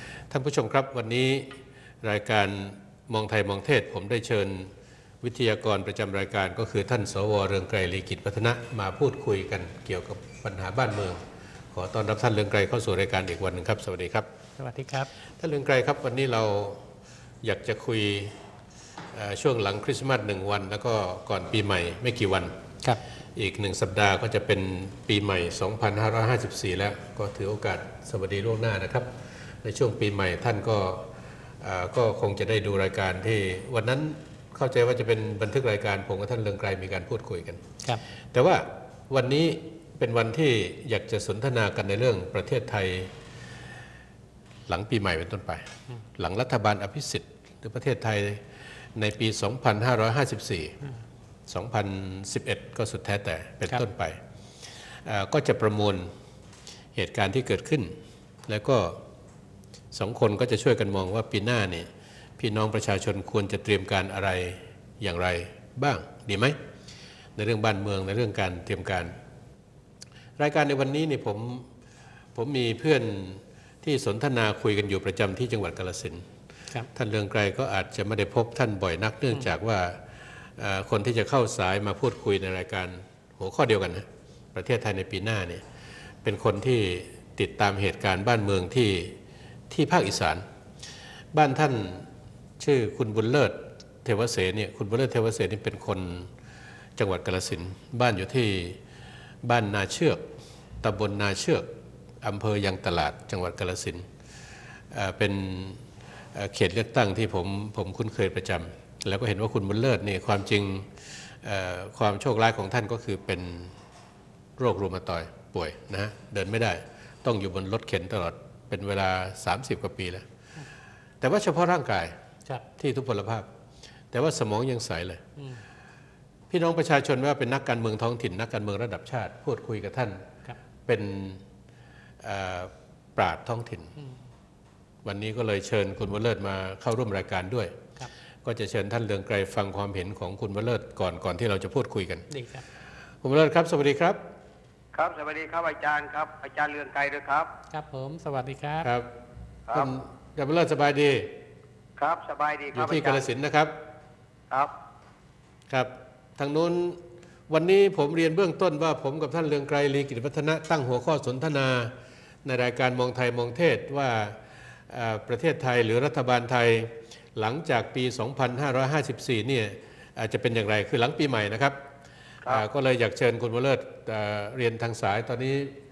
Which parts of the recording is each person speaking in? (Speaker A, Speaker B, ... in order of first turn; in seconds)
Speaker A: 0.3-11.2, 11.7-14.3, 15.4-16.8, 17.4-18.4, 19.1-22.5, 23.3-29.1, 29.6-31.1, 31.6-37.7, 38.3-43.1, 44.7-48.4, 49.0-50.8, 51.5-54.2, 55.0-56.1, 56.9-57.9, 58.5-59.0, 59.9-66.6, 67.3-69.1, 70.4-71.7, 72.3-76.2, 76.9-80.0, 80.6-85.6, 86.2-89.2, 89.7-90.4, 91.3-92.1, 92.6-96.3, 97.0-98.8, 99.4-100.3, 100.8-101.7, 102.2-104.0, 104.9-105.8, 106.3-113.7, 114.6-120.2, 121.2-122.2, 122.8-123.5, 124.1-125.2, 126.5-130.2, 130.8-131.4, 132.2-133.9, 135.0-137.8, 138.4-142.3, 143.2-144.2, 148.8-149.1, 149.7-151.3, 152.7-153.7, 155.7-161.9, 162.4-171.8, 172.4-175.7
Speaker B: 14.6-15.1, 142.3-142.6, 147.7-148.9
Speaker C: 144.9-147.5, 149.7-149.9, 152.0-153.2